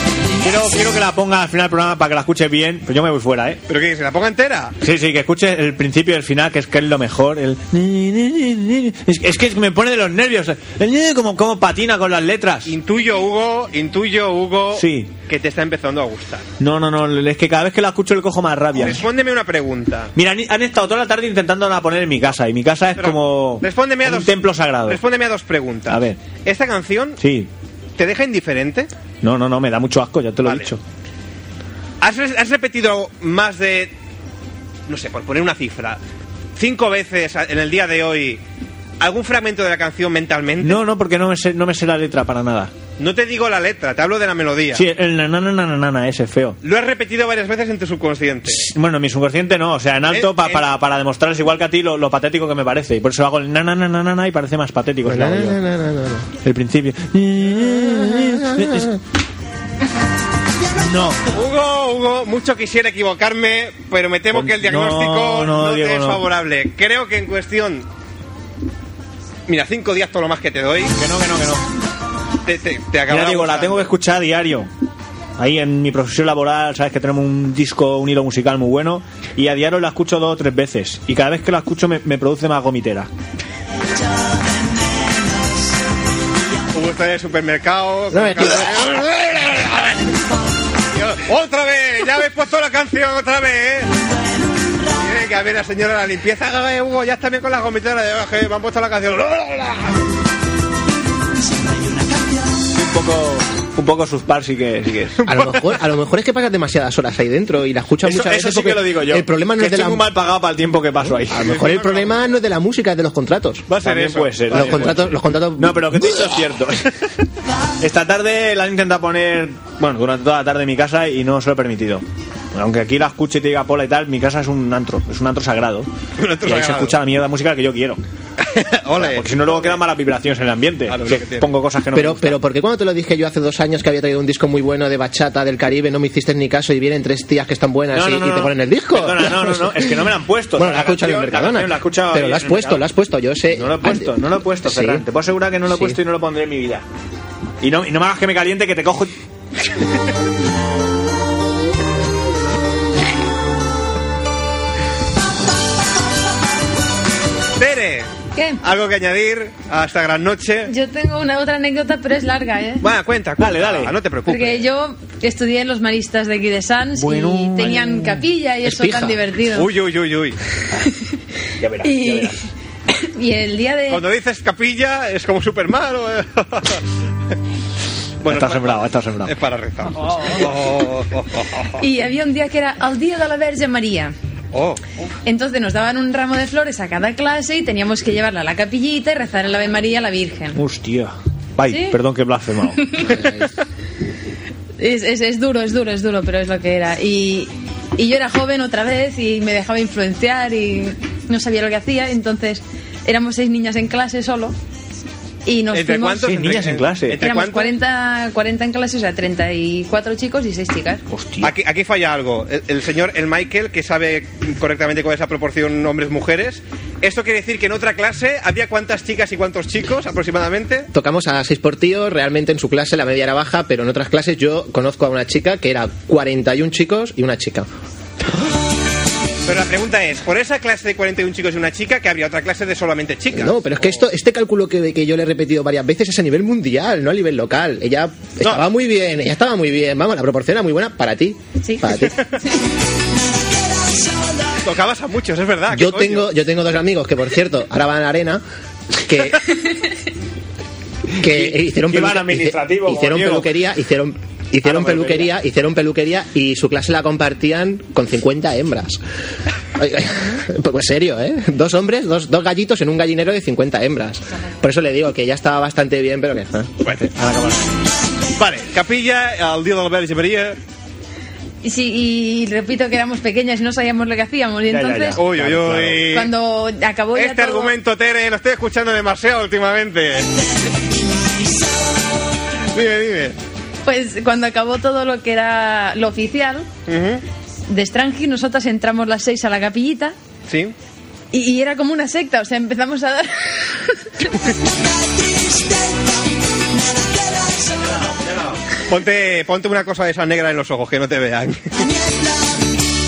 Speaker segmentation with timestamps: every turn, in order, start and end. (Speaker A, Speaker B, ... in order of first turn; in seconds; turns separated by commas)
Speaker A: 0.4-3.6, Speaker B: 3.7-4.7, Speaker A: 4.8-12.7, Speaker B: 12.7-16.4, Speaker A: 14.7-15.1, Speaker A: 16.6-19.0, Speaker B: 18.8-20.1, Speaker A: 20.1-25.0, Speaker B: 23.0-27.2, Speaker A: 25.9-26.2, Speaker A: 27.2-27.5, Speaker B: 28.0-28.9, Speaker A: 29.2-30.8, Speaker B: 30.4-30.7, Speaker B: 32.0-33.9, Speaker B: 34.9-36.0, Speaker B: 36.6-38.4, Speaker B: 39.0-40.8, Speaker A: 40.6-42.7, Speaker B: 43.0-44.9, Speaker A: 44.7-46.6, Speaker B: 46.6-48.6, Speaker A: 48.5-55.6, Speaker B: 50.1-50.6, Speaker C: 55.0-56.3, Speaker A: 56.4-59.0, Speaker C: 57.7-59.0, Speaker A: 60.8-61.2, Speaker B: 61.3-67.9, Speaker A: 64.3-66.2, Speaker B: 69.5-70.9, Speaker A: 70.9-71.7, Speaker B: 72.5-73.9, Speaker A: 73.1-74.7, Speaker A: 75.4-83.1, Speaker B: 86.7-90.0, Speaker C: 88.1-89.0, Speaker B: 90.9-93.9, Speaker B: 94.9-100.0, Speaker A: 102.7-105.2, Speaker C: 105.2-110.0, Speaker B: 105.3-105.8, Speaker A: 108.0-111.5, Speaker C: 111.3-113.7, Speaker B: 111.4-112.2, Speaker B: 113.7-115.1, Speaker A: 113.8-116.9, Speaker C: 114.5-116.3, Speaker A: 117.8-125.9, Speaker B: 126.2-127.0, Speaker A: 126.4-128.0, Speaker B: 128.4-129.8, Speaker A: 128.9-132.4, Speaker B: 130.9-131.5, Speaker C: 131.9-140.0, Speaker A: 137.9-142.9, Speaker C: 140.6-145.1, Speaker A: 143.5-146.8, Speaker C: 145.7-146.0, Speaker A: 147.6-149.1, Speaker B: 157.6-158.1, Speaker D: 158.3-158.6, Speaker B: 158.6-160.7, Speaker D: 160.7-162.9, Speaker B: 162.8-164.7, Speaker A: 163.4-164.0, Speaker D: 164.3-169.7, Speaker A: 167.0-168.3, Speaker C: 168.6-169.2, Speaker B: 169.6-170.4, Speaker A: 171.6-172.4, Speaker D: 171.8-172.3, Speaker D: 173.1-174.0, Speaker B: 173.9-176.8, Speaker B: 178.2-181.7, Speaker A: 178.2-179.3, Speaker D: 181.8-184.1, Speaker B: 184.5-184.8, Speaker D: 185.2-190.6, Speaker A: 190.6-193.1, Speaker D: 191.7-192.0, Speaker D: 194.8-204.6, Speaker D: 205.4-206.3, Speaker B: 205.7-207.7, Speaker A: 206.2-207.2, Speaker D: 207.2-211.0, Speaker A: 211.1-211.5, Speaker B: 211.4-220.9, Speaker C: 220.9-227.7, Speaker B: 229.4-234.0, Speaker C: 233.3-242.1, Speaker D: 241.6-242.1, Speaker B: 244.6-246.3, Speaker C: 245.7-248.4, Speaker C: 249.0-249.4, Speaker A: 251.2-253.6, Speaker C: 251.2-259.0, Speaker A: 254.6-255.4, Speaker C: 259.8-266.9, Speaker B: 266.8-267.1, Speaker A: 267.1-267.6, Speaker B: 268.4-270.6, Speaker D: 271.6-275.2, Speaker A: 274.7-276.2, Speaker B: 275.2-276.3, Speaker D: 276.1-277.7, Speaker B: 277.1-280.3, Speaker B: 282.7-283.4, Speaker D: 283.9-286.7, Speaker B: 286.9-287.2, Speaker D: 287.7-290.1, Speaker B: 290.5-290.7, Speaker D: 291.3-294.4, Speaker B: 298.0-301.8